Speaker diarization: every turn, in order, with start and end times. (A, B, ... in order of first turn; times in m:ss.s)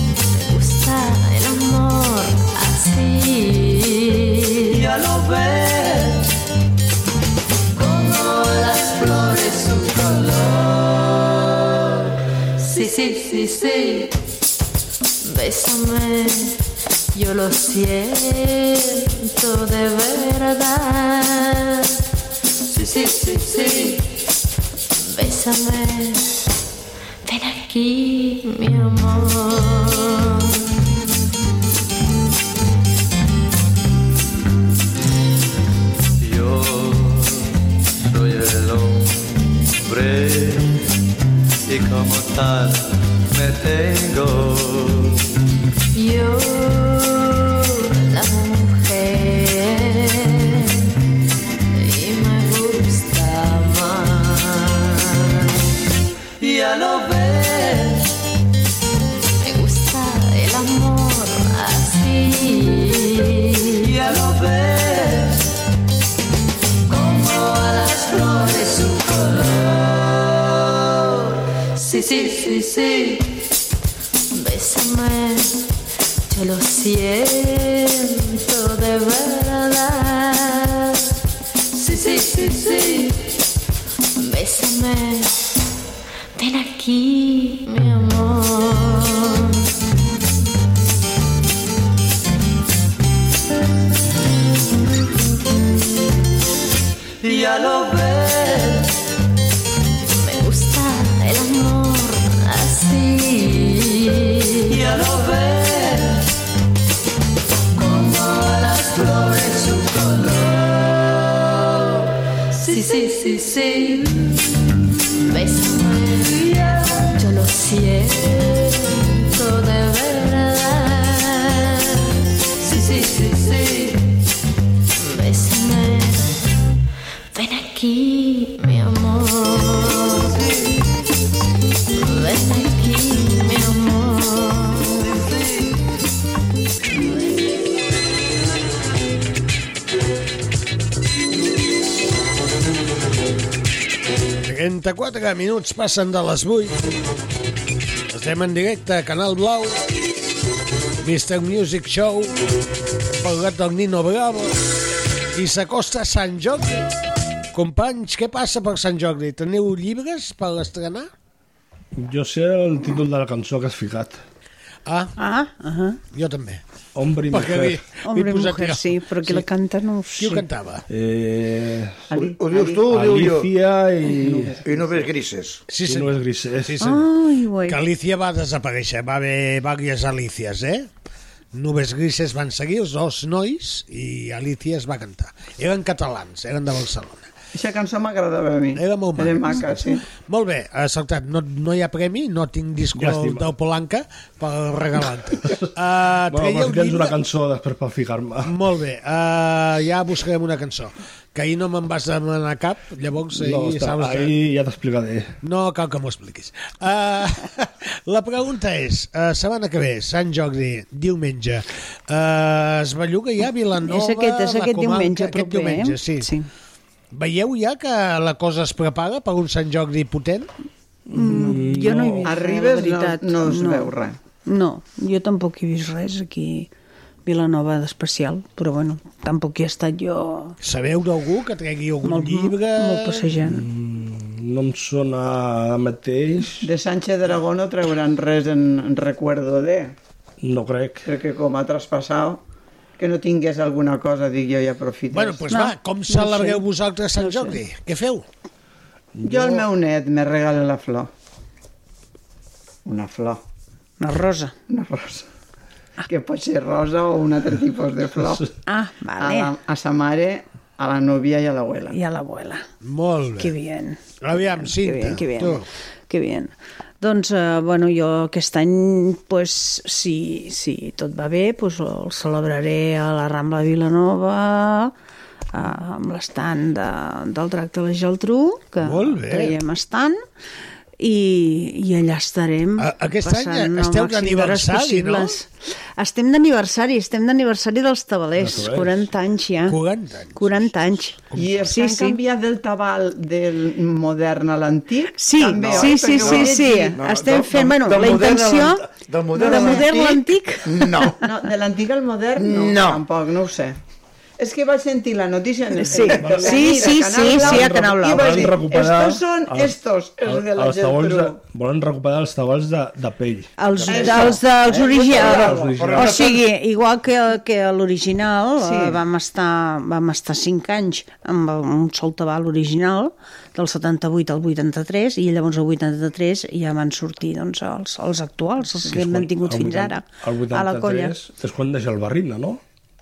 0:00.3-0:04.8 A
0:04.7-0:06.2 B
0:07.8-0:10.6 A
0:12.6-0:14.1 A
0:15.2-0:16.6 A
0:17.1-0:22.0 A
0:22.7-0:24.0 A
0:25.0-0:26.3 A
0:27.2-0:30.5 A
0:36.2-0:40.9 B
0:41.7-0:45.2 B
0:45.9-0:50.8 A
0:51.7-0:54.8 A
0:56.4-0:58.0 B
0:59.4-1:03.9 A
1:03.8-1:05.4 B
1:06.9-1:10.2 A
1:11.8-1:13.2 A
1:14.3-1:15.6 A
1:16.3-1:21.0 A
1:21.7-1:23.2 A
1:24.2-1:25.3 A
1:26.4-1:29.6 A
1:37.2-1:38.8 B
1:40.1-1:44.8 A
1:44.7-1:46.2 B
1:47.7-1:51.1 A
1:52.5-1:54.3 A
1:55.3-1:56.6 A
1:57.1-2:02.0 A
2:02.6-2:03.9 A
2:05.0-2:06.3 A
2:07.3-2:10.4 A
2:12.0-2:15.2 A
2:24.4-2:26.8 C
2:28.1-2:29.8 C
2:31.0-2:32.3 C
2:33.1-2:34.5 C
2:35.3-2:36.9 C
2:37.5-2:41.1 C
2:41.9-2:44.2 D
2:44.8-2:45.1 C
2:45.2-2:46.0 E
2:46.1-2:46.6 C
2:46.9-2:47.8 D
2:47.3-2:49.4 C
2:48.0-2:50.5 E
2:50.2-2:50.8 C
2:50.9-2:52.2 D
2:52.1-2:52.9 F
2:52.2-2:53.5 G
2:52.8-2:54.6 D
2:54.0-2:55.1 F
2:54.6-2:55.7 G
2:55.7-2:57.0 C
2:55.8-2:56.9 D
2:56.8-2:57.8 E
2:57.6-3:00.9 C
3:01.5-3:07.3 C
3:07.5-3:10.0 F
3:08.8-3:17.2 C
3:12.9-3:13.5 D
3:16.3-3:18.5 D
3:18.5-3:24.3 C
3:23.3-3:25.3 D
3:25.4-3:36.3 C
3:33.8-3:36.5 E
3:37.1-3:40.5 C
3:41.1-3:42.3 D
3:41.1-3:43.9 E
3:41.2-3:41.6 F
3:42.2-3:44.2 F
3:44.4-3:46.7 E
3:47.2-3:50.6 E
3:50.6-3:53.3 C
3:52.0-3:53.6 E
3:53.4-3:56.7 D
3:56.6-4:00.0 F
4:00.4-4:01.0 D
4:01.0-4:02.4 F
4:03.0-4:05.4 F
4:05.1-4:08.2 C
4:05.5-4:06.6 E
4:07.2-4:07.6 E
4:09.1-4:09.6 D
4:09.2-4:11.1 F
4:12.8-4:13.4 F
4:14.0-4:14.5 E
4:14.7-4:15.3 F
4:16.0-4:18.5 F
4:18.6-4:19.5 E
4:19.2-4:22.0 F
4:21.9-4:22.6 E
4:22.8-4:23.5 C
4:23.4-4:34.9 E
4:24.2-4:25.7 C
4:35.5-4:40.2 E
4:38.8-4:39.6 C
4:41.0-4:49.8 E
4:42.8-4:45.4 C
4:48.4-4:49.0 D
4:49.6-4:50.7 C
4:50.3-4:52.2 E
4:51.3-4:51.6 D
4:51.3-4:57.0 F
4:55.2-5:01.2 E
4:55.6-5:01.2 G
4:59.3-5:00.0 F
5:01.0-5:03.8 F
5:02.4-5:03.0 G
5:04.4-5:11.4 F
5:05.8-5:08.5 E
5:06.2-5:13.5 D
5:13.6-5:31.2 E
5:13.8-5:14.4 G
5:13.9-5:16.0 F
5:15.0-5:16.4 G
5:15.4-5:16.2 D
5:18.6-5:19.0 F
5:28.9-5:32.6 D